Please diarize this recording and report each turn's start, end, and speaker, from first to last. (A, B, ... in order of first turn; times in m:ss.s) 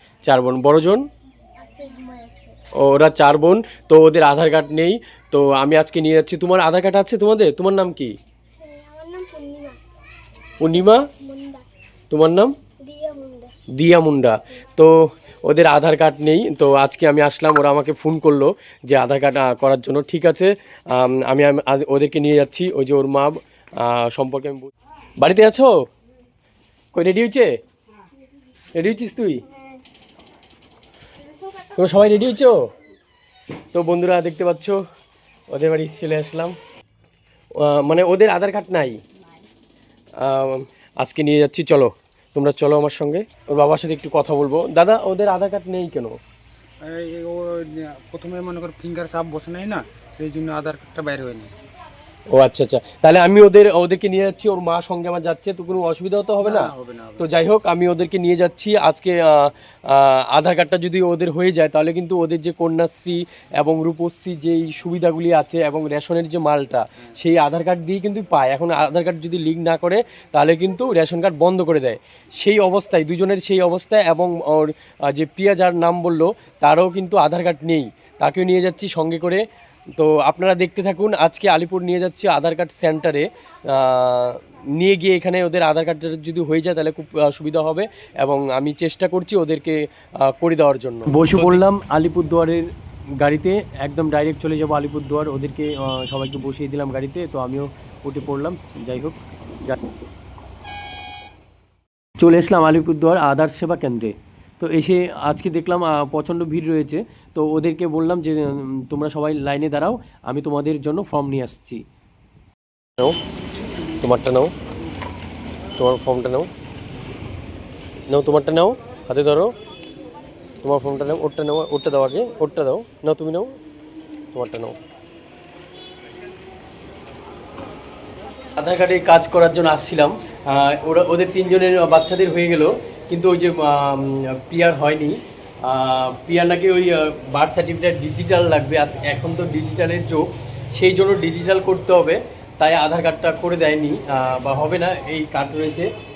0:00.2-0:01.0 A
0:01.6-0:02.6 B
0:02.8-0:08.1 A
0:08.6-0:09.8 B
0:10.6-0:11.1 A
0:11.0-0:11.7 B
0:12.1-0:12.5 A
0:12.8-0:13.5 B
0:13.7-0:25.8 A
0:26.9-0:27.5 A
0:28.8-0:29.4 A
0:31.6-0:32.7 A
0:33.7-0:34.8 A
0:35.5-0:36.6 A
0:37.6-0:39.0 A
0:40.2-0:46.2 A
0:46.8-0:51.5 C
0:52.3-1:19.4 A
0:56.4-0:57.2 C
1:20.0-1:39.8 A
1:42.2-1:51.8 A
1:54.0-1:54.5 A
1:55.8-1:56.5 A
1:58.1-1:59.5 A
2:00.6-2:03.5 A
2:04.3-2:04.8 A
2:08.6-2:25.9 A